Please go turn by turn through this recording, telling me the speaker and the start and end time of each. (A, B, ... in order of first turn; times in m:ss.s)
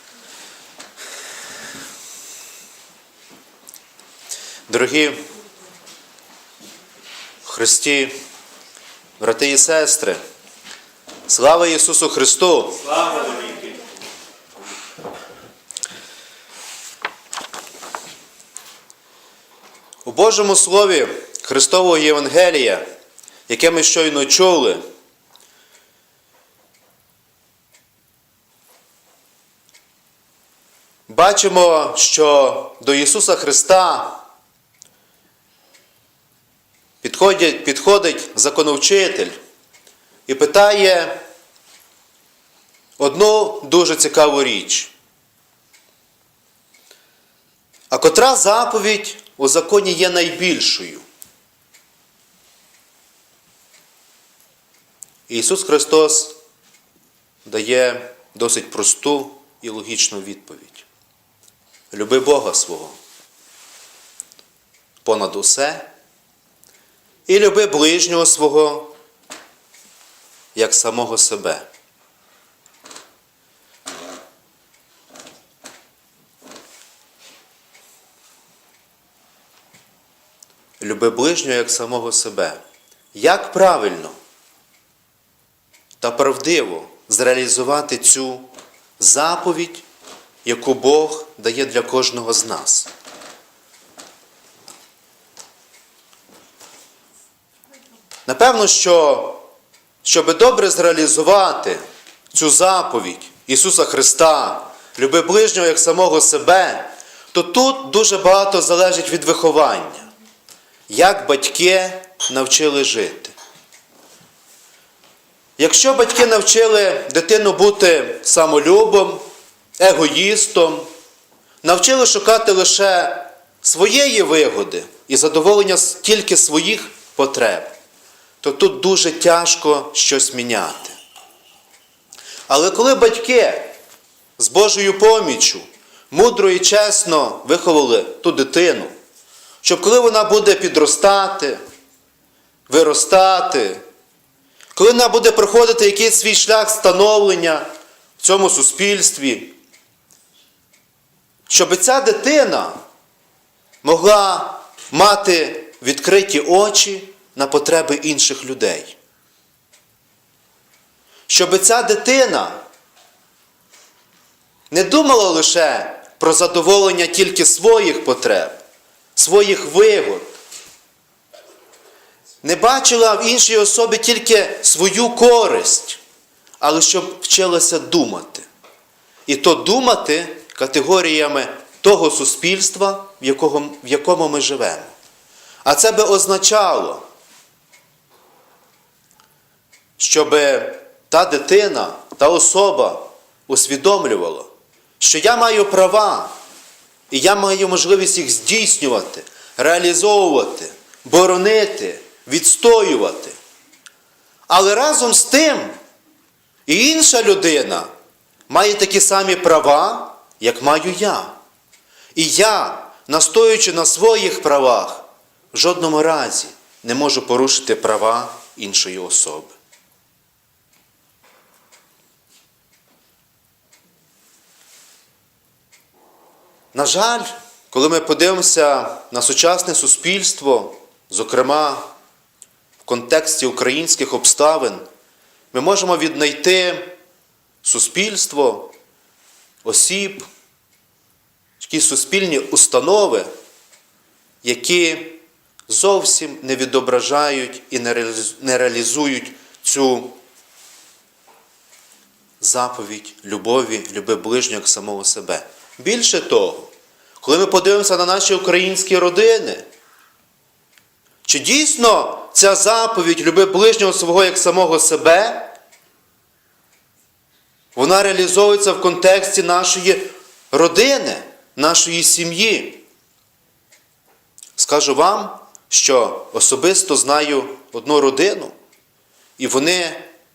0:04.7-0:05.2 A
0:07.4-0:08.1 A
0:09.2-0:10.2 A
0:11.3-0:13.2 A
0:20.0-0:22.8 A
0:23.5-0:24.8 A
0:31.1-0:34.2 A
0:37.0-0:39.4 A
0:40.3-0:41.2 A
0:43.0-0:44.9 A
0:47.9-0:51.0 A
0:55.3-0:56.3 A
0:57.4-1:00.8 A
1:01.9-1:03.0 A
1:05.0-1:05.9 A
1:07.3-1:08.9 A
1:10.5-1:11.6 A
1:20.8-1:22.6 A
1:23.1-1:24.2 A
1:26.0-1:29.8 A
1:30.4-1:32.9 A
1:38.2-1:39.4 A
1:40.0-1:41.8 A
1:42.3-1:50.1 A
1:50.9-1:53.3 A
1:55.6-1:59.2 A
1:59.8-2:00.9 A
2:01.6-2:07.7 A
2:08.4-2:11.0 A
2:12.5-2:13.7 A
2:14.4-2:18.9 A
2:19.6-2:21.6 A
2:22.7-2:23.8 A
2:24.7-2:27.7 A
2:28.2-2:29.6 A
2:31.5-2:32.8 A
2:33.8-2:39.0 A
2:41.3-2:42.6 A
2:44.7-2:48.6 A
2:49.2-2:50.3 A
2:52.4-2:56.0 A
2:56.6-2:58.4 A
2:59.3-3:04.9 A
3:05.6-3:07.0 A
3:10.0-3:16.3 A
3:17.1-3:23.4 A
3:24.5-3:25.8 A
3:26.7-3:27.9 A
3:28.5-3:31.4 A
3:32.1-3:39.5 A
3:46.7-3:51.9 A
3:52.8-3:54.8 A
3:55.5-3:56.9 A
3:57.6-3:58.7 A
3:59.6-4:00.2 A
4:01.6-4:03.3 A
4:04.4-4:10.2 A
4:12.4-4:19.6 A
4:21.2-4:25.5 A
4:27.7-4:32.8 A
4:34.6-4:38.5 A
4:39.4-4:40.1 A